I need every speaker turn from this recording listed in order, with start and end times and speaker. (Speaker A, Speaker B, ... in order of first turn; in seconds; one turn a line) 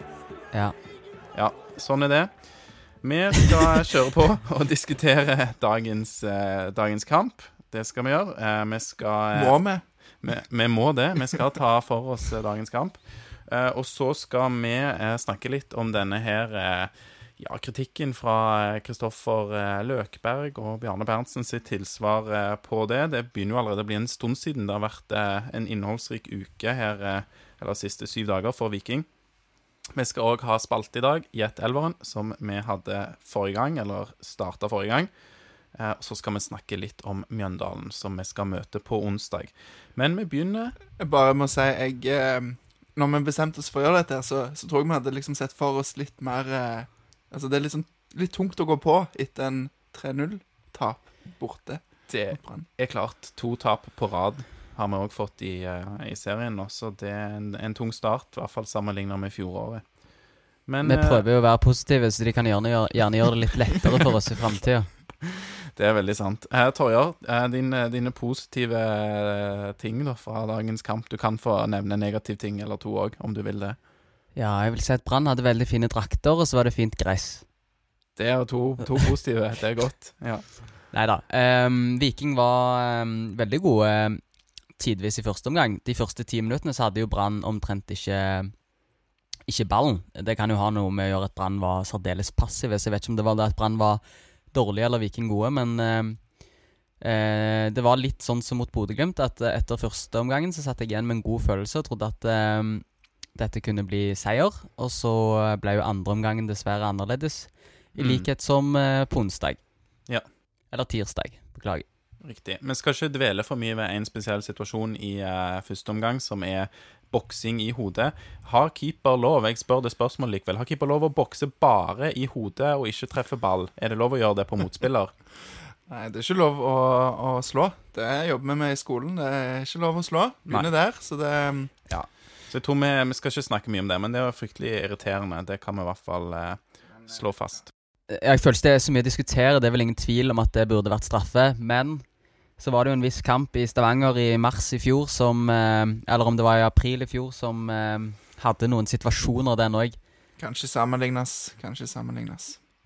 Speaker A: 1.3-9.6
Speaker B: 9.3-9.8
Speaker A: 10.2-29.1
Speaker A: 29.9-35.1
Speaker A: 35.7-40.8
Speaker B: 41.0-52.7
Speaker A: 52.1-60.0
Speaker A: 60.6-61.2
Speaker C: 60.8-64.9
Speaker A: 65.8-73.8
Speaker C: 74.3-77.5
Speaker A: 78.2-80.6
Speaker C: 80.9-88.6
Speaker C: 89.5-96.4
Speaker C: 97.0-109.6
Speaker A: 108.0-108.3
Speaker C: 110.7-111.8
Speaker A: 112.2-125.2
Speaker B: 125.9-131.7
Speaker A: 131.9-137.7
Speaker C: 138.1-150.0
Speaker B: 150.4-152.6